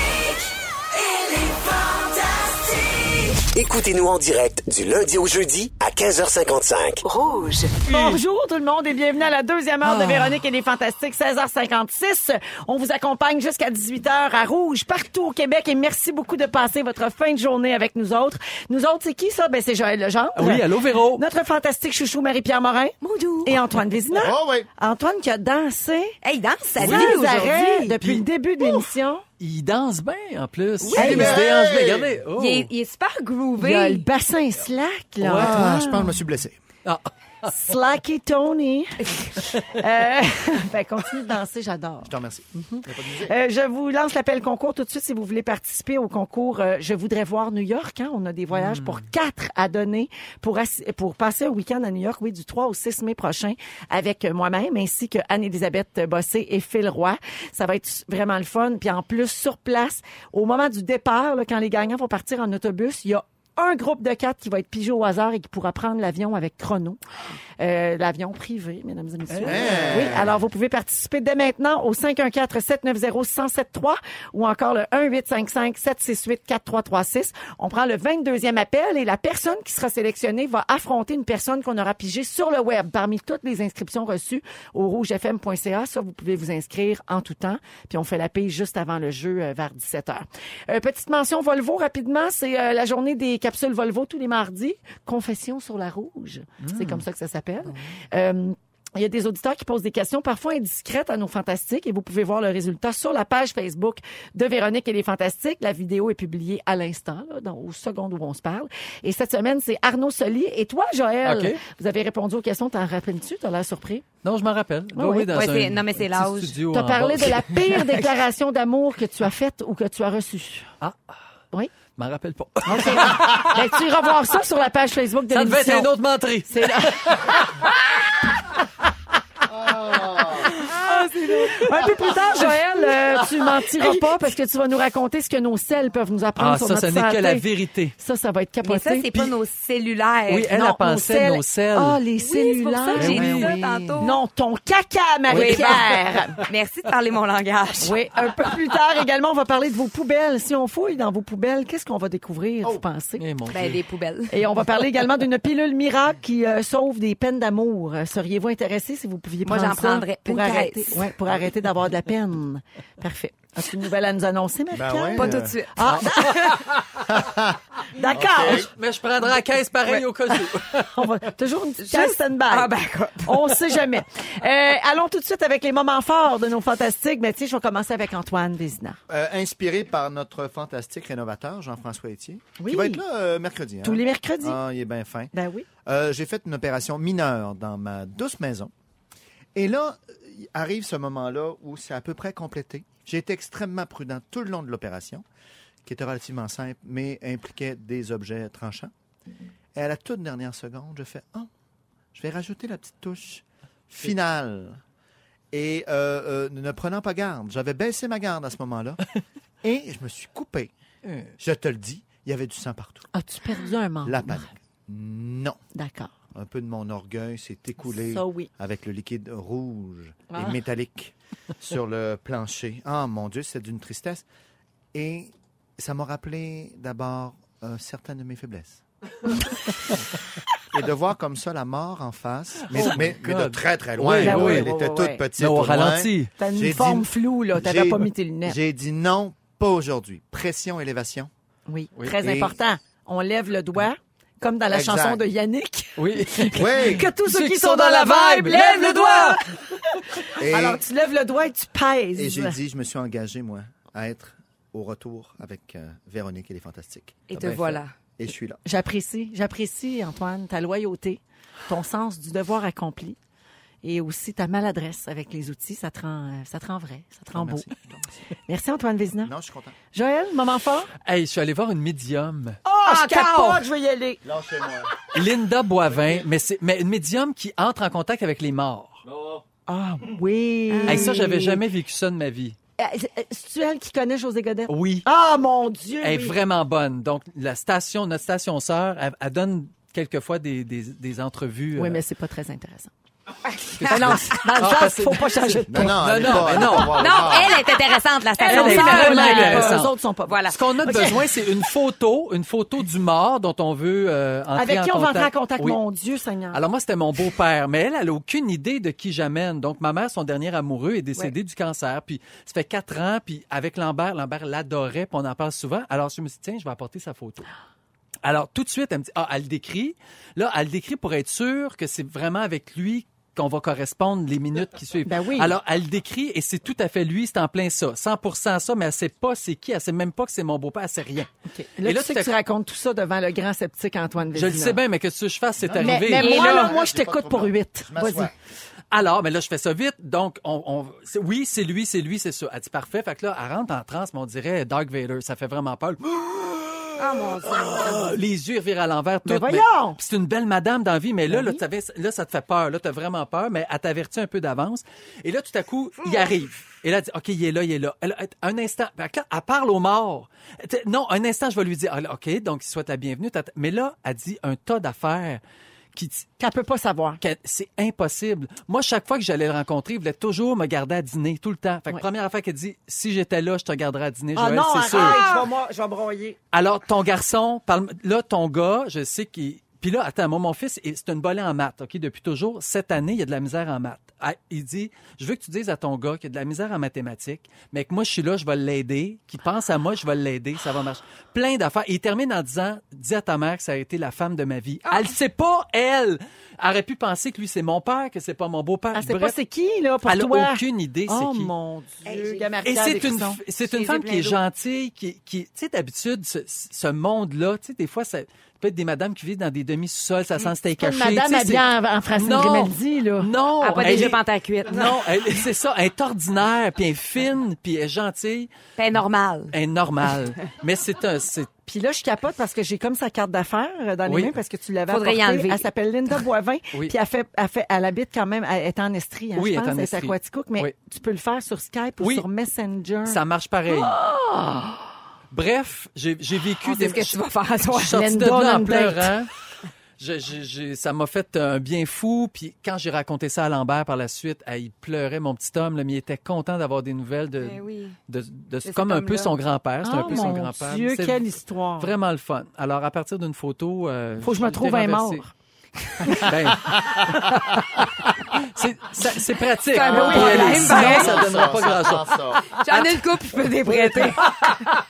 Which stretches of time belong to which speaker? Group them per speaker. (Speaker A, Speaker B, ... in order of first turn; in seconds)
Speaker A: 1.2-7.8
Speaker B: 7.8-26.1, 26.8-29.2, 30.9-31.4, 33.6-36.1, 37.5-67.0, 67.6-114.0, 114.9-115.3, 116.7-120.7, 122.7-125.9, 126.5-127.2, 130.7-137.4, 138.0-139.1, 140.5-146.4, 147.8-153.2, 154.3-166.7, 167.9-168.7, 170.8-172.7, 173.2-179.0, 182.6-183.0, 183.8-184.6, 185.3-185.7, 213.1-214.5, 215.7-216.1, 217.9-218.5, 220.3-220.6, 234.2-235.2, 236.4-238.6, 241.7-249.6, 250.2-252.6, 258.6-263.2, 263.8-267.7, 268.5-269.3, 269.9-270.9, 272.6-274.2, 279.7-281.6, 282.8-286.4, 291.8-292.9, 293.8-296.1, 298.4-301.2, 304.5-306.6, 325.1-325.5, 331.5-334.8, 335.8-338.3, 349.2-350.0, 351.3-351.6, 366.4-367.2, 374.4-376.4, 398.9-403.4, 410.8-413.3, 421.7-434.8, 437.8-439.1, 449.8-451.9, 454.2-455.3, 456.0-456.3, 459.8-461.1
Speaker C: 7.9-8.2, 9.8-10.4, 20.4-21.2, 26.8-27.2, 29.4-32.7, 35.2-35.8, 36.8-37.5, 48.5-49.0, 69.3-70.1, 96.6-97.0, 111.2-111.6, 114.2-117.7, 122.0-123.6, 125.3-128.3, 130.1-134.0, 136.4-137.9, 140.3-142.0, 142.9-143.6, 145.3-145.8, 153.2-153.8, 165.8-167.1, 168.5-171.0, 211.0-211.3, 232.7-234.7, 235.4-236.3, 246.0-249.4, 257.4-257.8, 271.0-273.6, 275.1-279.0, 280.9-282.6, 284.7-285.1, 286.0-292.0, 293.8-297.2, 298.4-299.9, 300.5-305.8, 306.5-317.5, 318.2-331.3, 331.8-332.3, 334.3-336.4, 338.9-365.4, 365.9-366.3, 367.2-375.3, 376.5-399.4, 400.1-401.5, 402.6-411.6, 412.1-418.5, 419.5-421.5, 424.1-424.3, 429.4-430.7, 432.0-432.2, 433.0-433.9, 435.3-439.3, 440.0-451.2, 451.8-455.2, 456.1-463.2
Speaker D: 23.0-23.6, 26.2-28.0, 30.8-31.4, 32.4-34.0, 115.2-116.6, 138.6-140.5, 142.2-144.2, 145.3-148.0, 153.5-154.4, 159.4-161.1, 165.1-166.6, 169.9-170.4, 171.8-173.8, 248.5-249.3, 257.3-257.9, 272.9-273.4, 280.7-281.4, 293.5-294.6, 296.6-301.1, 336.2-336.7, 347.0-348.1, 356.0-356.3, 374.9-375.5, 394.8-395.1, 402.0-402.6, 403.6-404.4, 413.6-414.9, 418.8-419.5, 424.9-425.7, 436.6-438.0, 447.4-447.9, 448.6-449.3, 459.7-461.4, 462.6-464.4
Speaker E: 24.1-24.7, 30.9-32.1, 35.3-36.6, 42.0-43.3, 69.4-70.4, 129.5-130.5, 164.7-165.6, 167.1-167.6, 168.1-168.7, 179.1-185.3, 185.8-188.7, 189.5-195.2, 195.8-198.9, 199.7-201.5, 202.1-204.8, 205.5-209.0, 209.6-210.7, 211.4-213.1, 214.0-215.6, 216.3-224.2, 224.9-228.8, 230.7-241.3, 242.2-242.6, 244.7-245.2, 246.5-247.1, 250.4-250.8, 252.1-258.6, 267.3-268.1, 269.2-269.7, 274.2-274.9, 279.1-279.4, 295.7-297.6, 335.6-338.3, 456.7-457.1, 460.2-462.4